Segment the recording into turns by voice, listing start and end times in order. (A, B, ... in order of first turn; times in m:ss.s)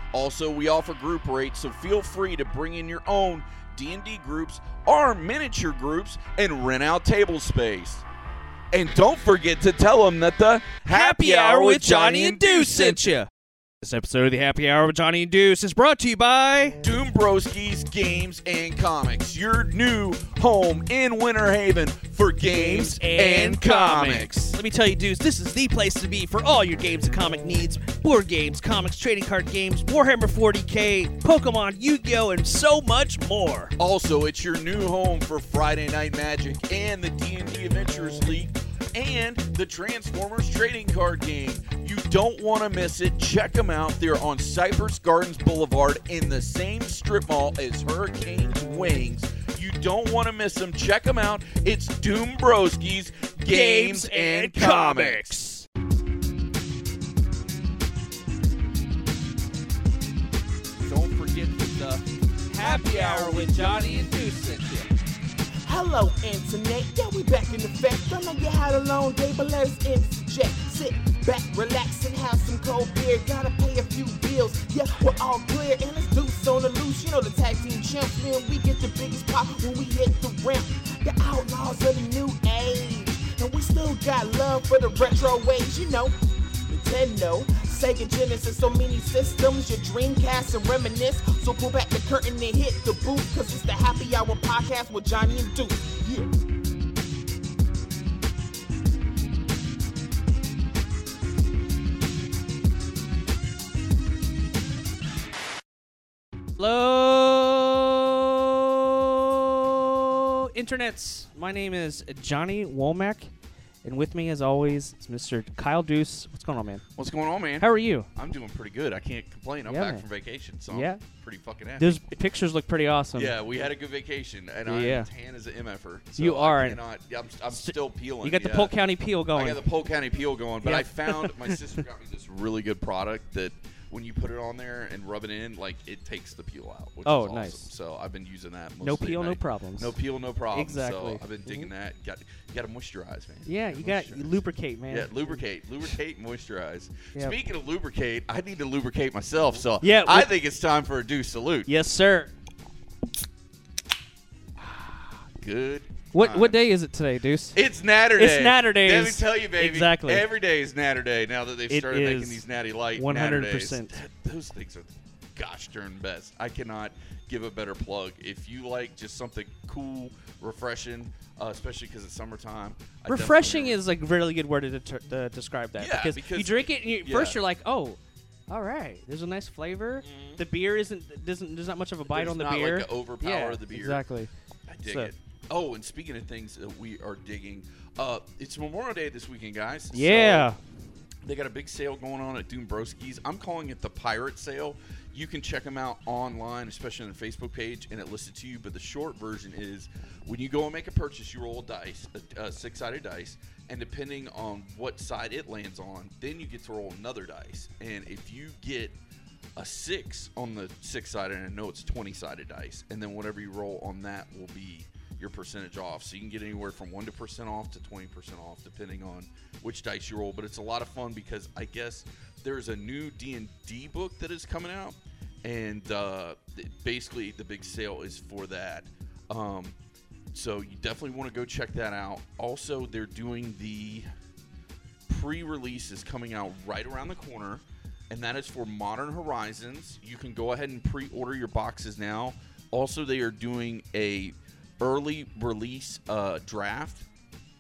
0:00.1-0:08.0 A
0:08.7-0:13.2 A
0:10.8-0:13.3 B
0:13.8-0:16.8 B
0:16.8-0:24.6 A
0:22.5-0:33.8 B
0:33.8-0:55.4 A
0:53.4-0:55.7 B
1:00.8-1:02.0 A
1:02.5-1:04.9 B
1:02.6-1:03.8 A
1:05.6-1:26.2 C
1:26.7-1:36.3 C
1:46.6-1:53.3 B
1:53.8-1:56.8 B
1:57.0-2:02.0 A
1:57.6-1:58.1 B
1:59.6-2:00.0 B
2:00.7-2:01.0 B
2:01.8-2:03.4 B
2:03.1-2:08.7 A
2:04.7-2:05.1 B
2:06.2-2:06.8 B
2:07.5-2:09.6 B
2:09.4-2:31.7 A
2:10.6-2:11.6 B
2:17.0-2:17.7 B
2:18.8-2:20.0 B
2:20.5-2:21.7 B
2:23.5-2:25.4 B
2:29.8-2:30.3 B
2:31.7-2:32.3 B
2:34.6-2:36.7 A
2:36.1-2:40.3 B
2:37.5-2:53.8 A
2:41.7-2:44.0 B
2:53.1-3:04.3 B
2:55.8-2:57.4 A
3:00.0-3:00.4 A
3:02.1-3:04.0 A
3:04.7-3:10.5 A
3:04.8-3:05.1 B
3:09.9-3:10.6 B
3:11.2-3:29.0 A
3:29.6-3:49.8 A
3:50.3-3:54.1 A
3:55.1-4:07.1 A